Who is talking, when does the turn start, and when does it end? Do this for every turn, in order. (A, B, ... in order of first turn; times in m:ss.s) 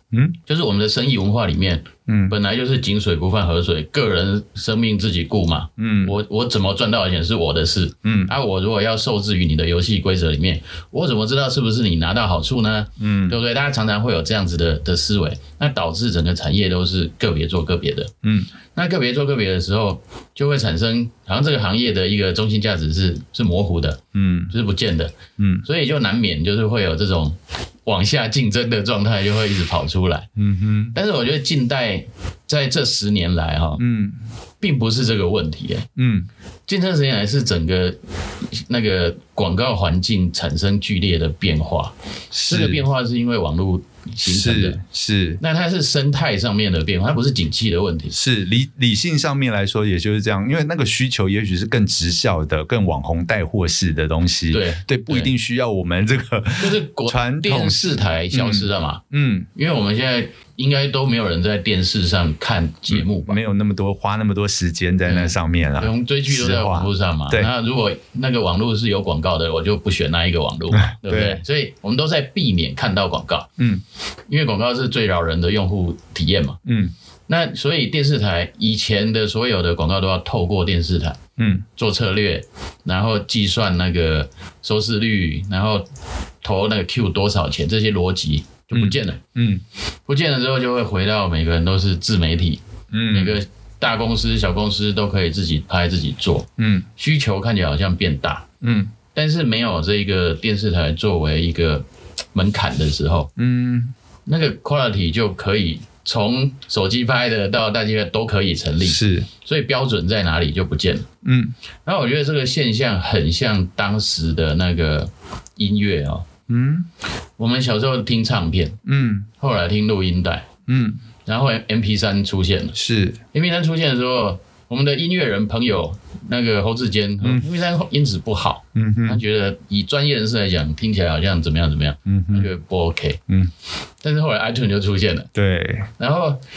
0:00.4-0:18.1 A
0:02.1-0:02.4 B
0:05.8-0:06.1 B
0:08.0-0:08.3 B
0:13.0-0:13.4 B
0:18.2-0:18.5 B
0:18.7-0:30.3 A
0:24.1-0:24.5 B
0:25.4-0:25.7 B
0:30.4-0:31.0 B
0:30.9-0:33.8 A
0:33.8-0:34.2 B
0:34.6-0:35.9 A
0:36.0-0:36.3 B
0:36.7-0:41.9 A
0:42.3-0:42.8 B
0:42.5-0:44.8 A
0:44.2-0:45.4 B
0:45.4-0:48.2 A
0:48.1-0:59.5 B
0:54.5-0:55.3 A
0:56.6-0:59.0 A
0:59.5-1:03.4 A
1:02.9-1:07.5 B
1:05.1-1:13.5 A
1:10.8-1:11.4 B
1:14.3-1:16.6 A
1:16.7-1:16.9 B
1:17.3-1:21.2 A
1:21.4-1:21.7 B
1:21.8-1:25.8 A
1:26.4-1:29.2 A
1:28.7-1:29.6 B
1:30.1-1:38.5 A
1:32.9-1:33.4 B
1:36.6-1:36.9 B
1:38.6-1:38.9 B
1:39.1-1:43.3 A
1:43.4-1:43.9 B
1:44.3-1:51.1 A
1:48.8-1:49.3 B
1:51.2-1:51.6 B
1:51.8-1:56.3 A
1:56.5-1:56.9 B
1:57.4-1:58.8 A
1:58.9-1:59.3 B
1:59.4-2:00.5 A
2:00.7-2:01.0 B
2:01.3-2:02.8 A
2:02.8-2:03.2 B
2:03.3-2:13.2 A
2:08.8-2:09.2 B
2:12.1-2:12.5 B
2:14.0-2:15.3 A
2:15.3-2:15.9 B
2:16.0-2:16.4 A